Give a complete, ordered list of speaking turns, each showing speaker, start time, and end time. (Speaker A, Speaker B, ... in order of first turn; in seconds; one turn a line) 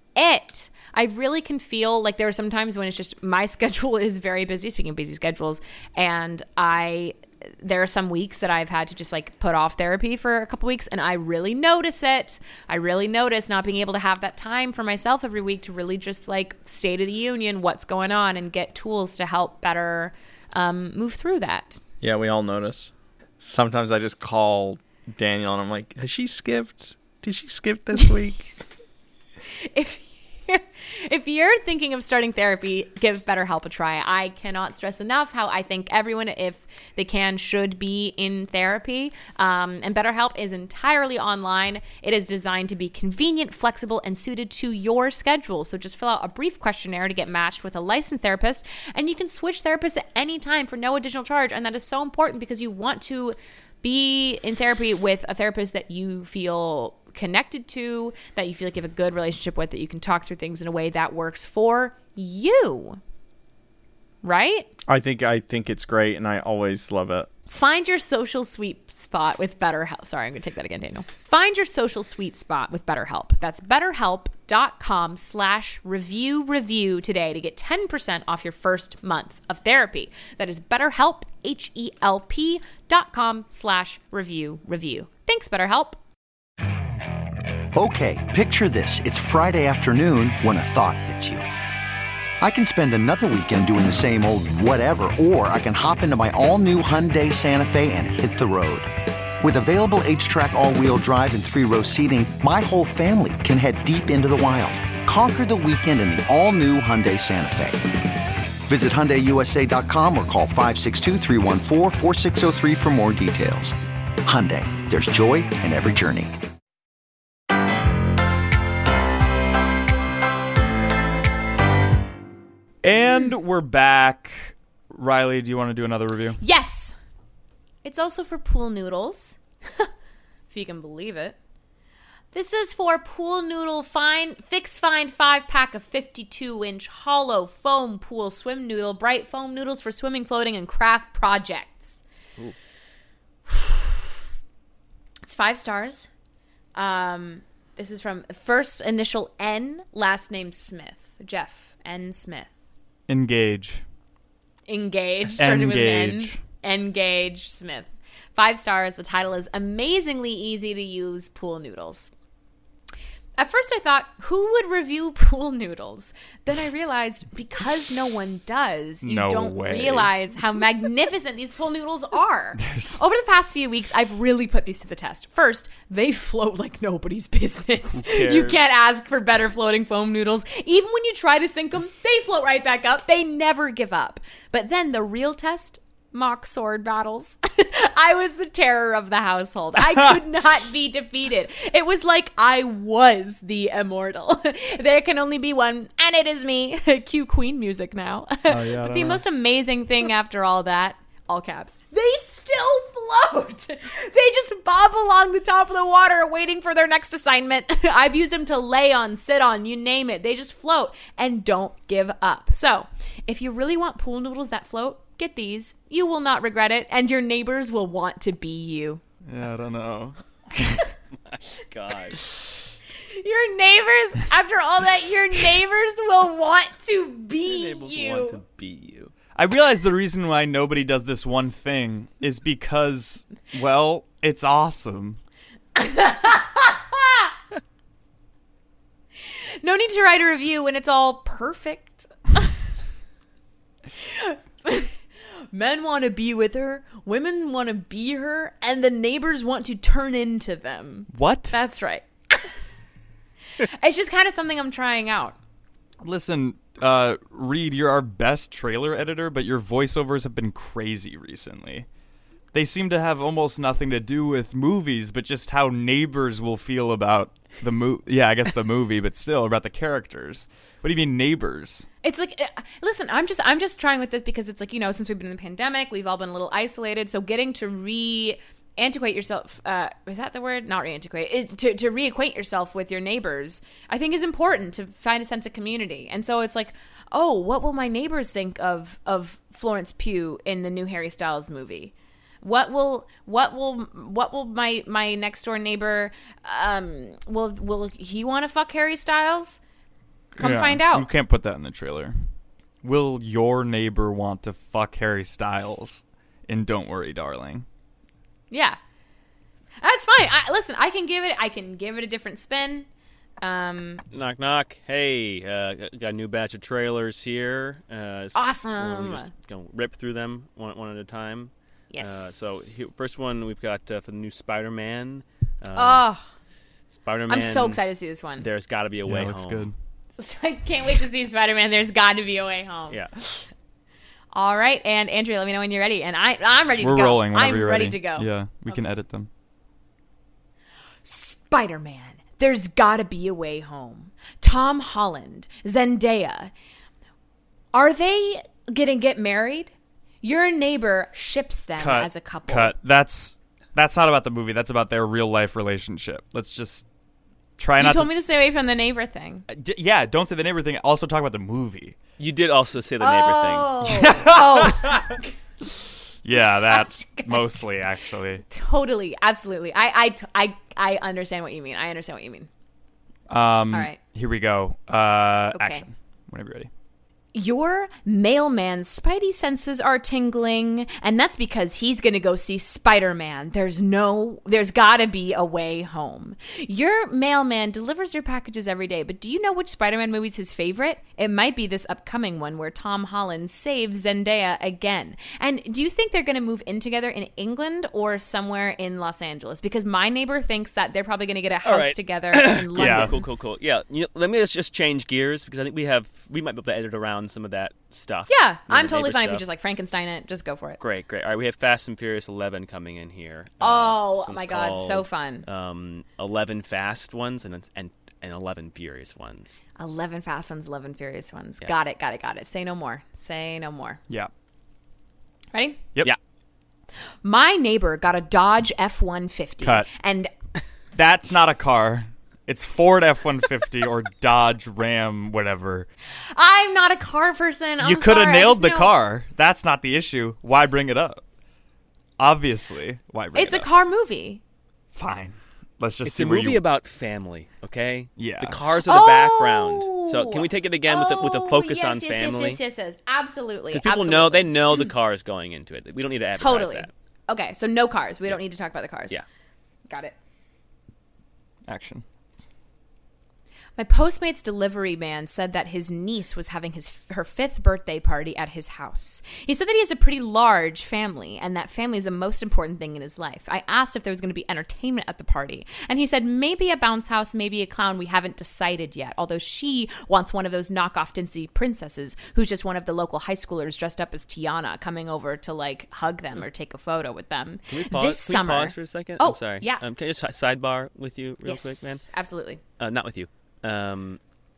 Speaker A: 0.2-21.8
Speaker B: 22.0-28.6
Speaker A: 29.5-63.0
Speaker A: 64.2-64.7
Speaker B: 64.9-67.3
Speaker A: 67.5-86.0
Speaker C: 87.7-91.5
Speaker C: 92.4-107.8
Speaker C: 108.7-116.3
Speaker D: 122.8-126.4
Speaker A: 126.4-127.0
Speaker A: 127.8-129.9
Speaker A: 130.5-131.4
Speaker A: 132.3-142.0
Speaker A: 143.5-144.2
Speaker A: 145.2-146.1
Speaker A: 146.8-152.5
Speaker D: 153.1-153.8
Speaker A: 154.7-162.1
Speaker D: 155.4-156.4
Speaker A: 163.4-219.0
Speaker D: 169.0-170.1
Speaker D: 172.6-173.0
Speaker D: 177.9-178.7
Speaker D: 198.5-199.2
Speaker D: 219.2-220.9
Speaker E: 221.3-222.2
Speaker A: 223.0-228.4
Speaker E: 227.4-229.1
Speaker D: 229.3-235.2
Speaker A: 235.8-237.3
Speaker A: 239.3-242.5
Speaker A: 244.0-245.0
Speaker A: 245.5-252.5
Speaker D: 251.1-251.6
Speaker A: 253.6-255.4
Speaker D: 256.0-261.9
Speaker D: 262.5-271.9
Speaker A: 272.0-299.6
Speaker A: 300.4-301.1
Speaker D: 300.4-302.2
Speaker D: 302.8-307.7
Speaker A: 308.5-308.8
Speaker A: 309.8-312.9
Speaker A: 313.4-314.0
Speaker E: 314.1-326.1
Speaker A: 318.4-319.3
Speaker A: 321.9-322.8
Speaker A: 325.8-326.2
Speaker E: 326.9-327.8
Speaker A: 327.3-328.5
Speaker E: 328.4-329.7
Speaker D: 329.1-329.8
Speaker A: 330.1-333.4
Speaker E: 332.9-333.1
Speaker A: 334.3-338.8
Speaker D: 336.8-339.3
Speaker A: 341.1-346.5
Speaker A: 347.7-352.8
Speaker D: 351.8-356.9
Speaker D: 357.6-358.1
Speaker A: 357.8-359.5
Speaker D: 359.5-362.0
Speaker E: 362.2-363.7
Speaker A: 363.0-365.3
Speaker D: 363.9-365.1
Speaker D: 366.2-368.4
Speaker A: 366.7-367.7
Speaker A: 368.5-372.5
Speaker D: 373.3-376.7
Speaker A: 373.7-374.0
Speaker A: 375.5-375.9
Speaker A: 377.3-403.2
Speaker E: 401.6-409.4
Speaker D: 402.8-403.2
Speaker A: 408.3-410.8
Speaker E: 410.8-419.6
Speaker A: 413.6-415.5
Speaker A: 419.8-424.0
Speaker A: 425.5-425.8
Speaker A: 427.2-430.3
Speaker D: 429.6-429.9
Speaker D: 430.9-435.9
Speaker A: 436.3-438.9
Speaker D: 437.8-441.2
Speaker D: 442.2-443.7
Speaker A: 443.4-444.4
Speaker D: 444.9-446.6
Speaker E: 446.1-452.6
Speaker D: 448.2-448.6
Speaker A: 448.9-454.9
Speaker E: 453.7-456.9
Speaker A: 456.4-459.2
Speaker A: 459.9-460.1
Speaker D: 461.7-462.1
Speaker A: 463.8-489.8
Speaker E: 487.7-492.1
Speaker A: 491.4-492.6
Speaker E: 492.8-494.2